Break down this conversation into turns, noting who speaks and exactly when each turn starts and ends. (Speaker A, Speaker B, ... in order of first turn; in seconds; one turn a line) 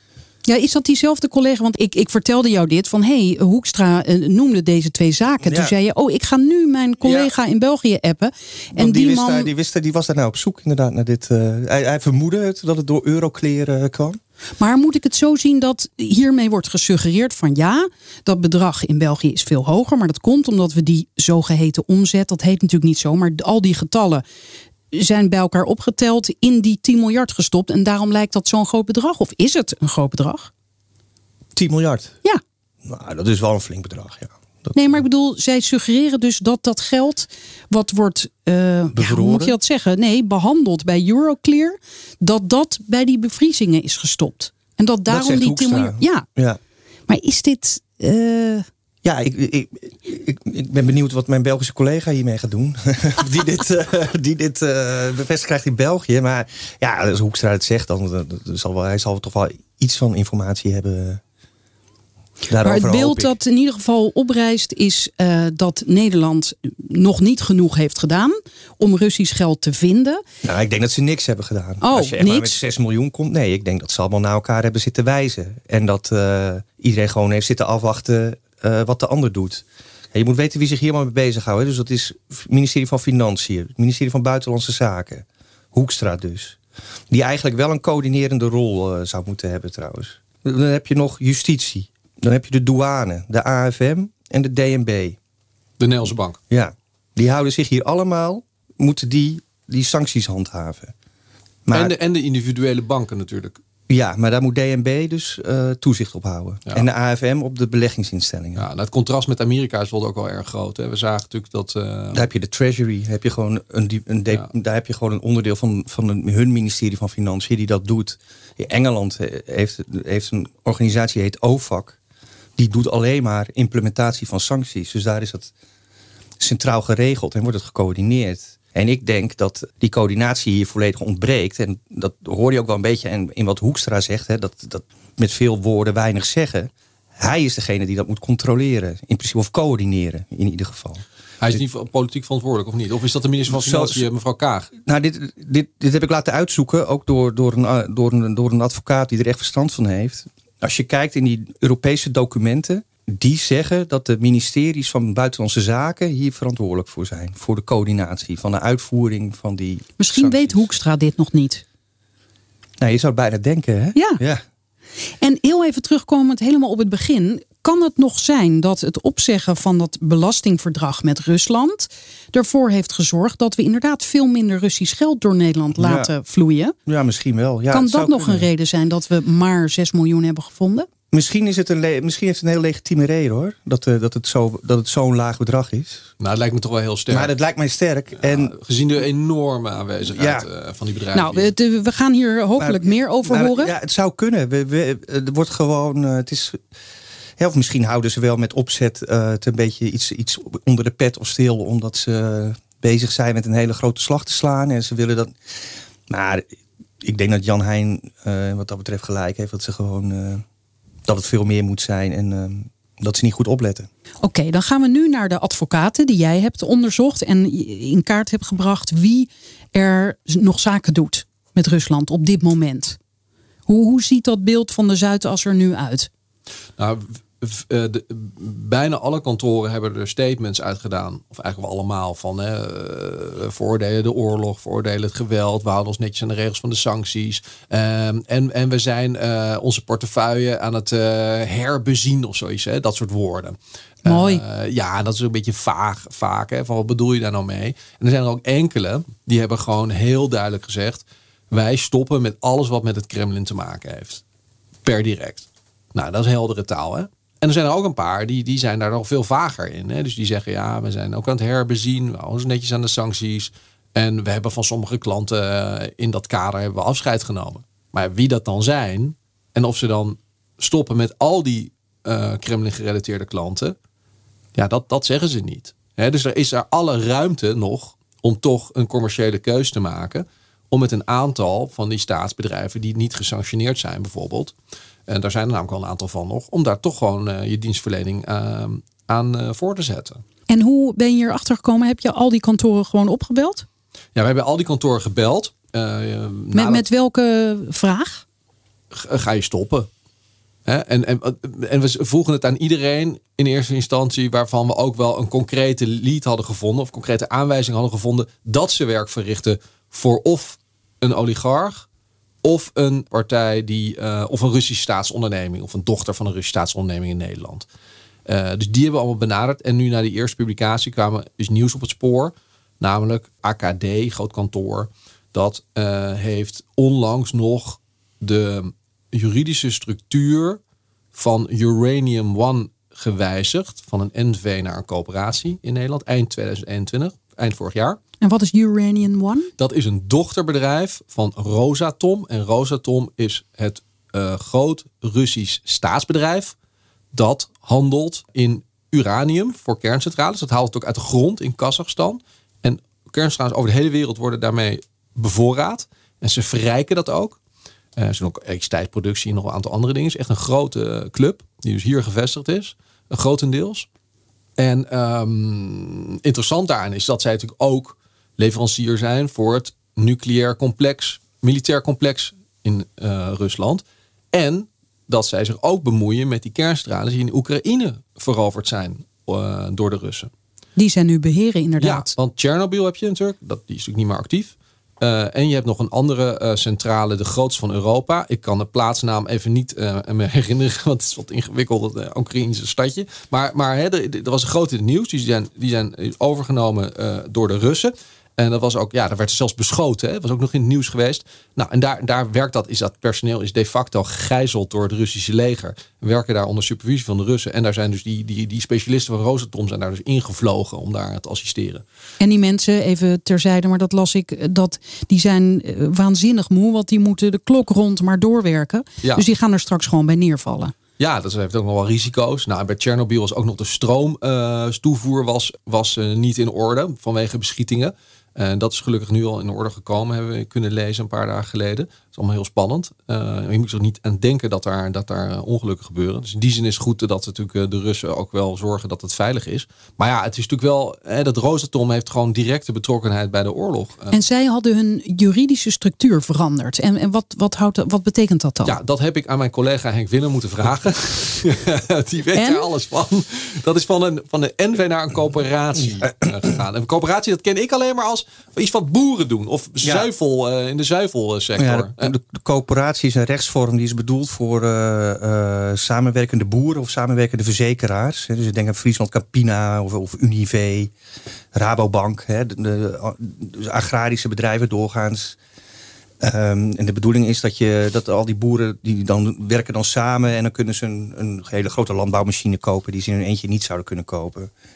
Speaker A: 0.5-9.5
Speaker B: 5.4-5.7
Speaker B: 7.0-7.3
Speaker B: 8.8-14.2
Speaker A: 14.6-24.2
Speaker A: 24.9-30.5
Speaker B: 31.6-32.2
Speaker B: 32.9-35.0
Speaker A: 34.8-46.3
Speaker B: 38.9-39.5
Speaker B: 45.1-46.6
Speaker A: 47.1-48.7
Speaker B: 49.0-61.2
Speaker B: 62.5-63.4
Speaker A: 62.6-70.2
Speaker B: 70.4-86.6
Speaker A: 71.8-72.6
Speaker B: 87.1-95.2
Speaker C: 95.8-96.4
Speaker B: 96.5-100.9
Speaker B: 101.7-102.0
Speaker C: 101.7-103.6
Speaker B: 103.9-108.7
Speaker C: 108.6-112.3
Speaker B: 112.1-122.0
Speaker B: 122.6-125.5
Speaker B: 126.4-141.6
Speaker C: 141.4-144.7
Speaker B: 143.5-144.1
Speaker B: 144.8-160.7
Speaker A: 160.0-161.6
Speaker B: 162.8-164.4
Speaker A: 163.9-164.2
Speaker A: 165.2-176.8
Speaker B: 175.8-176.1
Speaker B: 176.9-178.5
Speaker A: 177.7-180.9
Speaker B: 181.1-186.1
Speaker C: 186.2-187.3
Speaker B: 187.1-188.5
Speaker C: 188.2-191.5
Speaker B: 190.1-190.5
Speaker A: 191.1-193.7
Speaker B: 192.6-196.6
Speaker B: 197.4-205.4
Speaker B: 206.1-206.5
Speaker B: 207.0-210.4
Speaker B: 211.1-213.9
Speaker A: 214.2-223.0
Speaker A: 223.7-226.1
Speaker C: 226.8-254.2
Speaker A: 244.1-244.4
Speaker C: 254.8-273.8
Speaker C: 274.6-284.5
Speaker C: 285.1-290.2
Speaker A: 290.5-293.7
Speaker C: 294.2-296.9
Speaker A: 296.5-298.2
Speaker C: 298.9-299.9
Speaker C: 300.7-311.9
Speaker C: 312.4-317.7
Speaker C: 318.3-330.6
Speaker C: 331.1-338.0
Speaker A: 338.2-339.5
Speaker C: 339.6-346.6
Speaker C: 347.1-357.4
Speaker C: 358.0-363.9
Speaker C: 364.6-380.3
Speaker A: 380.8-382.1
Speaker C: 381.8-411.8
Speaker A: 412.2-420.7
Speaker C: 421.0-444.1
Speaker A: 444.1-448.8
Speaker C: 448.6-462.1
Speaker A: 452.3-452.7
Speaker B: 459.8-460.1
Speaker B: 461.6-470.9
Speaker B: 471.5-475.4
Speaker B: 476.2-484.5